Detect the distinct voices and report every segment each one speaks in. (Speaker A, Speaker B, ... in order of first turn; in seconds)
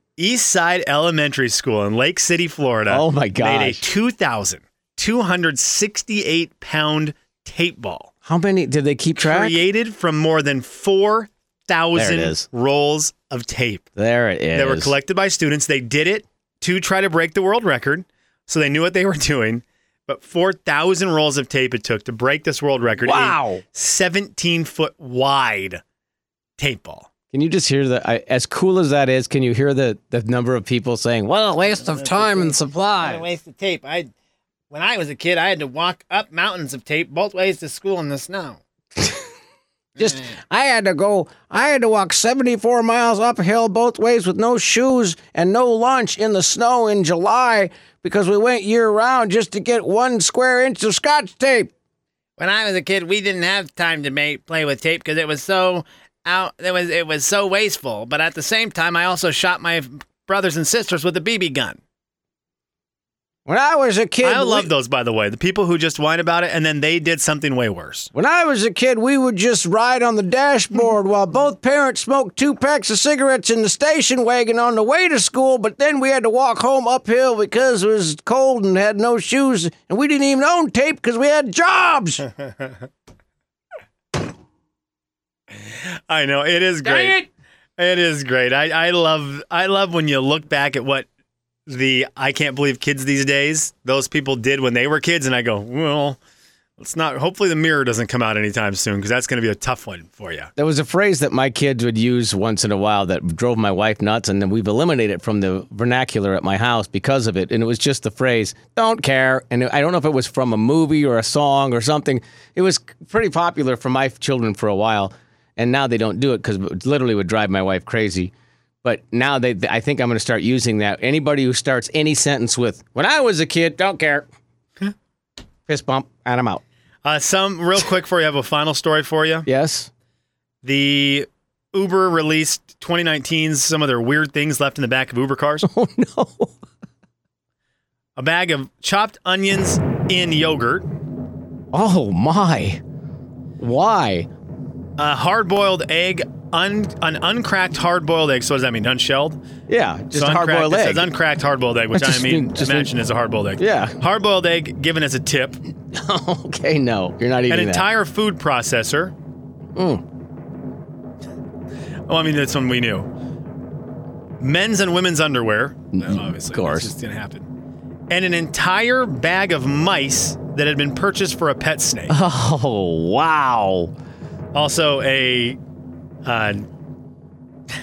Speaker A: 0.2-8.1, 9.2-13.9, 14.5-25.8, 26.6-27.1, 64.2-68.1, 85.7-87.3, 87.8-91.1, 91.7-96.2, 96.8-100.5, 127.0-129.5, 130.6-135.7, 138.2-140.9, 145.0-149.4, 150.1-155.6, 157.5-159.1, 162.1-163.1, 164.4-167.5, 168.1-172.1, 174.5-175.6, 176.2-176.7
Speaker B: 2.9-3.9, 8.2-9.6, 11.9-12.5, 14.0-14.9, 23.0-23.6, 27.3-33.2, 40.0-51.7, 63.5-64.7, 68.1-82.3, 86.9-87.1, 100.6-118.3, 118.8-124.3, 125.7-126.6, 129.5-129.9, 135.6-136.5, 141.7-142.8, 143.6-144.3, 149.7-151.1, 151.9-152.9, 153.6-154.0, 155.9-157.9, 159.8-160.0, 165.9-166.9, 172.1-173.9
Speaker C: 31.7-34.1, 34.7-38.6, 52.4-61.8